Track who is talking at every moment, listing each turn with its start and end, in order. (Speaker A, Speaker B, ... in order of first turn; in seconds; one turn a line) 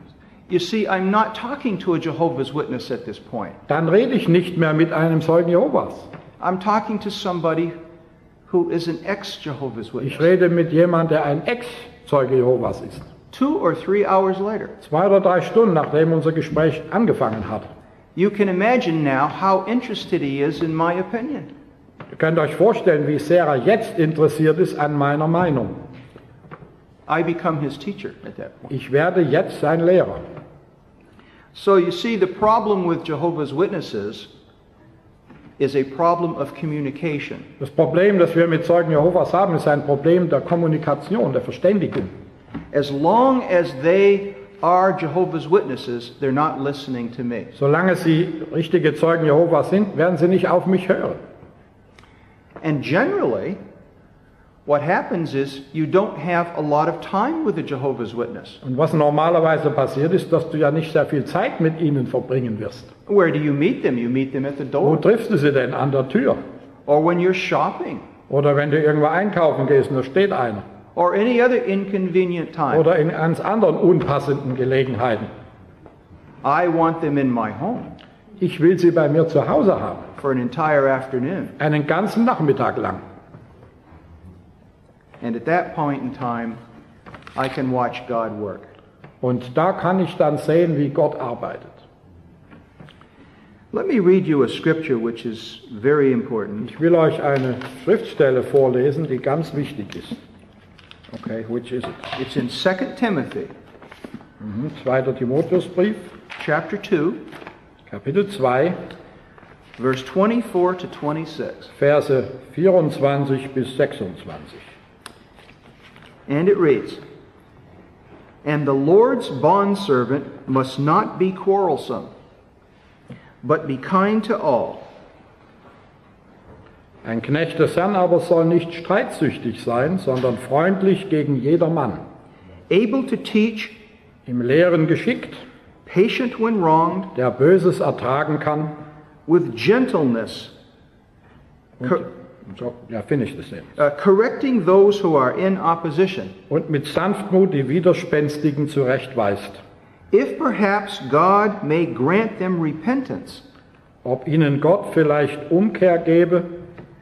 Speaker A: 0.5-3.6
Speaker B: 3.7-6.1
Speaker A: 6.4-7.8
Speaker A: 8.5-10.3
Speaker B: 10.0-13.1
Speaker A: 13.3-14.8
Speaker B: 14.8-17.7
Speaker A: 18.1-21.5
Speaker B: 22.1-25.8
Speaker A: 27.1-28.7
Speaker B: 28.7-30.2
Speaker A: 31.5-34.3
Speaker A: 35.6-37.5
Speaker B: 37.6-42.1
Speaker A: 42.7-47.5
Speaker B: 47.5-51.2
Speaker A: 52.6-53.6
Speaker A: 54.7-58.6
Speaker B: 58.6-62.9
Speaker A: 63.1-65.0
Speaker B: 64.8-66.4
Speaker A: 66.9-68.1
Speaker B: 68.3-70.6
Speaker A: 71.0-72.9
Speaker B: 72.7-75.3
Speaker A: 76.4-77.9
Speaker B: 78.4-80.1
Speaker A: 80.2-81.5
Speaker B: 81.6-83.0
Speaker A: 85.2-86.6
Speaker A: 87.3-88.7
Speaker B: 89.2-91.8
Speaker A: 93.7-96.7
Speaker B: 96.6-100.2
Speaker B: 101.1-102.1
Speaker A: 102.1-103.5
Speaker B: 104.4-106.1
Speaker A: 106.4-107.2
Speaker B: 107.9-108.8
Speaker A: 109.8-111.7
Speaker B: 111.8-114.6
Speaker A: 116.3-117.0
Speaker A: 118.4-122.1
Speaker A: 123.4-124.9
Speaker B: 127.0-132.0
Speaker A: 132.7-133.8
Speaker B: 134.3-135.4
Speaker A: 135.9-137.1
Speaker B: 137.1-138.8
Speaker A: 139.3-140.5
Speaker B: 141.8-143.7
Speaker A: 143.8-146.3
Speaker B: 146.5-149.6
Speaker A: 150.1-153.4
Speaker B: 154.0-156.5